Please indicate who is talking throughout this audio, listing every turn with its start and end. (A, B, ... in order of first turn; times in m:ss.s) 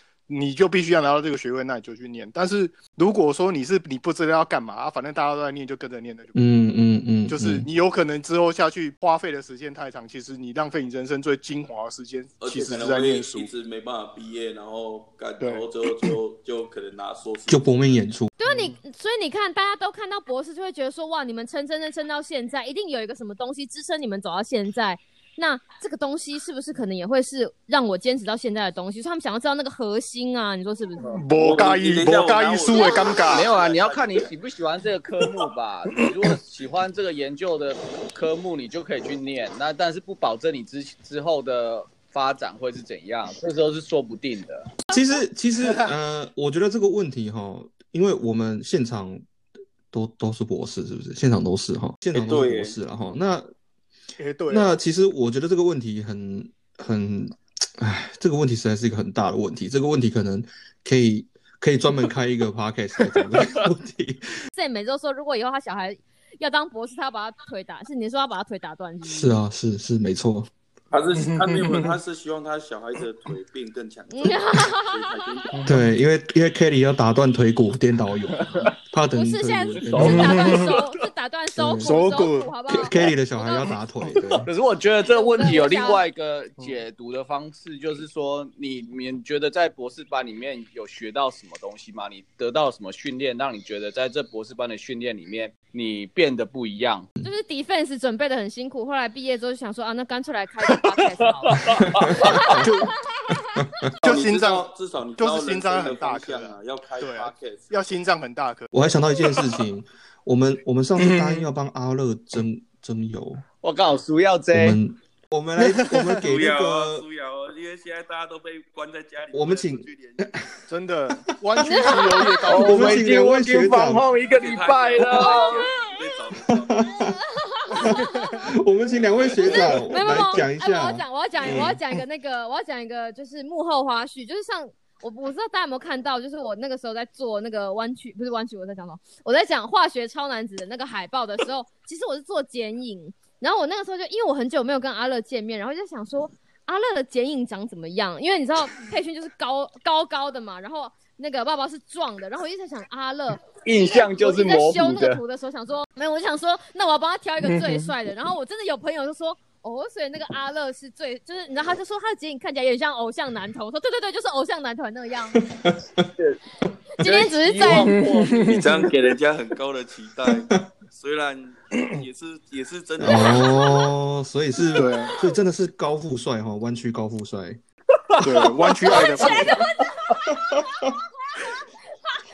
0:00.3-0:06.4 A
0:06.3-0:07.7 B
0:07.3-0:13.5 A
0:12.4-0:17.7 C
0:15.4-0:16.1 A
0:17.5-0:18.3 B
0:18.4-0:31.2 D
0:31.1-0:33.5 A
0:31.4-0:34.3 C
0:32.7-0:33.2 D
0:33.3-0:44.8 E
0:44.9-0:49.2 B
0:49.9-0:53.5 B
0:52.1-0:52.8 C
0:54.2-0:54.7 A
0:54.5-1:04.4 B
1:04.6-1:09.4 D
1:09.0-1:10.5 B
1:10.9-1:15.7 C
1:14.1-1:15.4 D
1:15.6-1:20.6 B
1:18.4-1:18.7 E
1:19.1-1:23.7 D
1:19.8-1:20.9 E
1:20.0-1:20.5 A
1:21.6-1:24.5 B
1:21.8-1:22.5 A
1:24.2-1:37.1 E
1:25.0-1:26.0 D
1:37.2-1:43.9 D
1:40.7-1:42.6 E
1:41.9-1:42.6 B
1:42.5-1:42.9 A
1:43.6-1:43.9 B
1:44.0-1:47.7 C
1:44.0-1:48.7 A
1:48.7-1:53.4 B
1:53.6-1:54.8 E
1:54.5-1:57.0 B
1:55.9-1:56.2 A
1:56.2-2:00.3 C
1:59.3-2:00.5 B
2:00.7-2:03.1 A
2:01.6-2:02.5 D
2:02.4-2:05.7 E
2:02.5-2:04.1 B
2:04.3-2:06.9 C
2:05.1-2:06.2 D
2:06.4-2:07.2 B
2:06.8-2:08.5 D
2:07.7-2:11.8 B
2:09.4-2:45.4 D
2:33.6-2:35.2 E
2:45.4-2:46.0 B
2:47.0-2:48.0 D
2:47.0-2:48.9 E
2:47.9-2:48.7 A
2:48.5-2:53.8 C
2:53.0-2:57.6 B
2:53.1-2:53.8 D
2:54.7-2:55.2 A
2:58.2-2:59.6 A
2:58.8-3:02.2 D
3:00.3-3:00.9 B